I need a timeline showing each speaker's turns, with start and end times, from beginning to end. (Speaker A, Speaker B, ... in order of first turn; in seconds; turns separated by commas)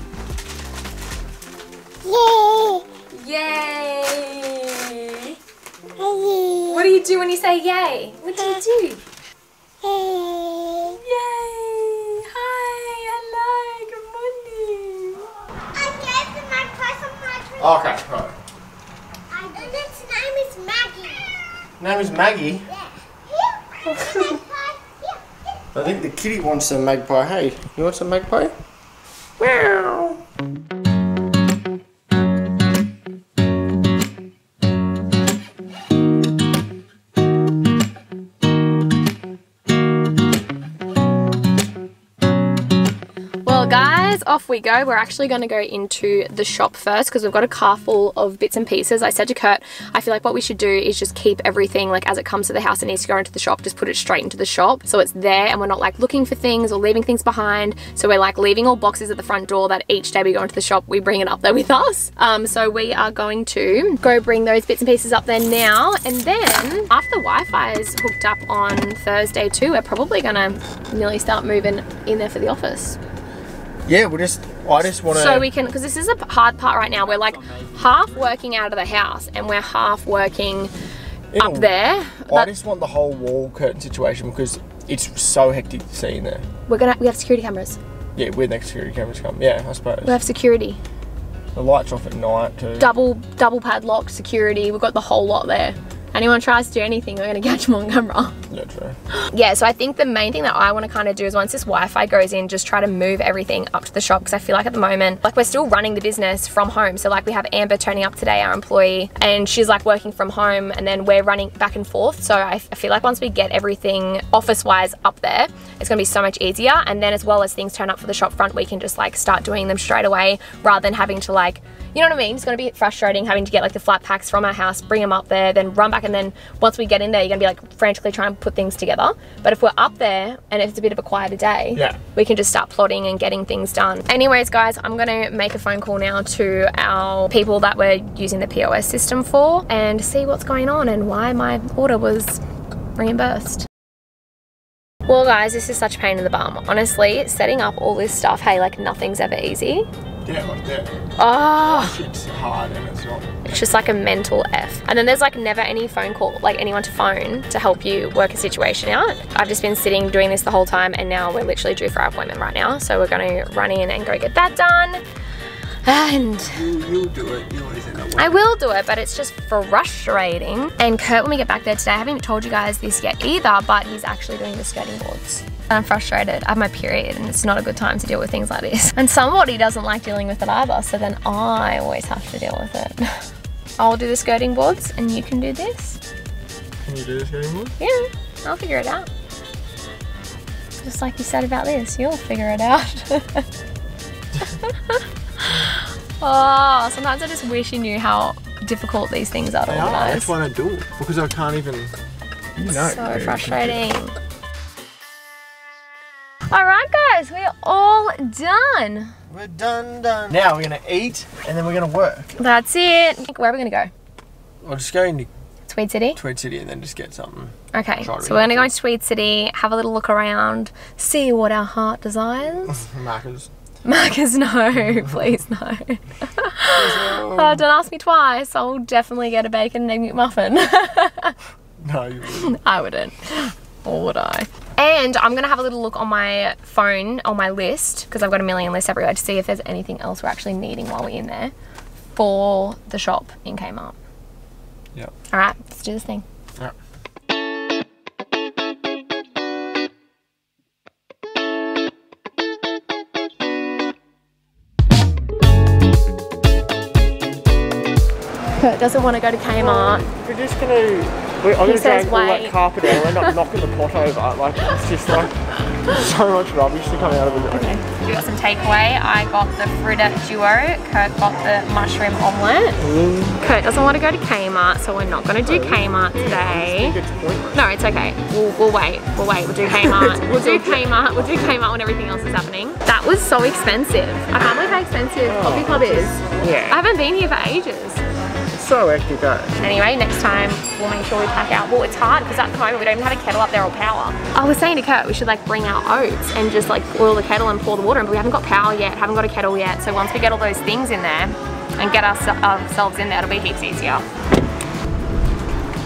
Speaker A: 2.3-2.8, Speaker B: 3.0-5.4, Speaker A: 6.2-6.5, Speaker B: 6.6-9.0, Speaker A: 10.0-10.6, Speaker B: 10.7-15.3, Speaker A: 15.8-17.5, Speaker C: 17.5-18.3, Speaker A: 19.4-21.1, Speaker C: 21.8-22.8, Speaker C: 23.9-24.4, Speaker C: 25.7-28.6, Speaker C: 29.4-30.2, Speaker B: 43.4-73.0, Speaker C: 73.9-75.5, Speaker B: 75.0-80.7, Speaker C: 77.0-78.0, Speaker C: 81.3-86.5, Speaker B: 81.4-82.5, Speaker B: 86.7-87.8, Speaker C: 88.2-90.2, Speaker B: 90.0-90.8, Speaker C: 91.5-92.9, Speaker B: 92.8-98.4, Speaker C: 98.5-99.0, Speaker B: 99.1-142.4, Speaker C: 131.7-132.0, Speaker B: 142.9-143.7, Speaker B: 145.1-149.9, Speaker C: 150.2-150.9, Speaker B: 151.2-152.0, Speaker C: 151.6-153.6, Speaker B: 153.4-165.0, Speaker B: 165.8-166.6, Speaker C: 166.4-168.4, Speaker B: 168.2-183.2, Speaker B: 183.8-186.0, Speaker C: 186.8-187.8, Speaker B: 187.8-189.1, Speaker B: 190.8-193.4, Speaker B: 194.6-200.3, Speaker C: 199.7-201.9, Speaker C: 202.6-203.8, Speaker B: 202.7-204.2, Speaker B: 206.5-209.1, Speaker C: 209.3-212.3, Speaker B: 212.3-213.9, Speaker C: 214.6-215.3, Speaker B: 215.6-216.2, Speaker C: 216.2-218.7, Speaker B: 217.7-222.8, Speaker C: 222.7-223.5, Speaker B: 223.8-231.4, Speaker C: 226.7-227.6, Speaker C: 231.8-232.6, Speaker B: 232.3-241.5, Speaker B: 242.1-244.0, Speaker B: 245.3-246.2, Speaker B: 258.6-260.1, Speaker C: 259.5-267.8, Speaker B: 261.6-263.3, Speaker B: 267.5-272.8, Speaker C: 272.8-273.4, Speaker B: 273.4-277.0, Speaker C: 275.4-277.6, Speaker B: 277.5-288.0, Speaker C: 279.8-280.8, Speaker C: 285.2-286.8, Speaker C: 288.5-289.6, Speaker B: 289.6-304.0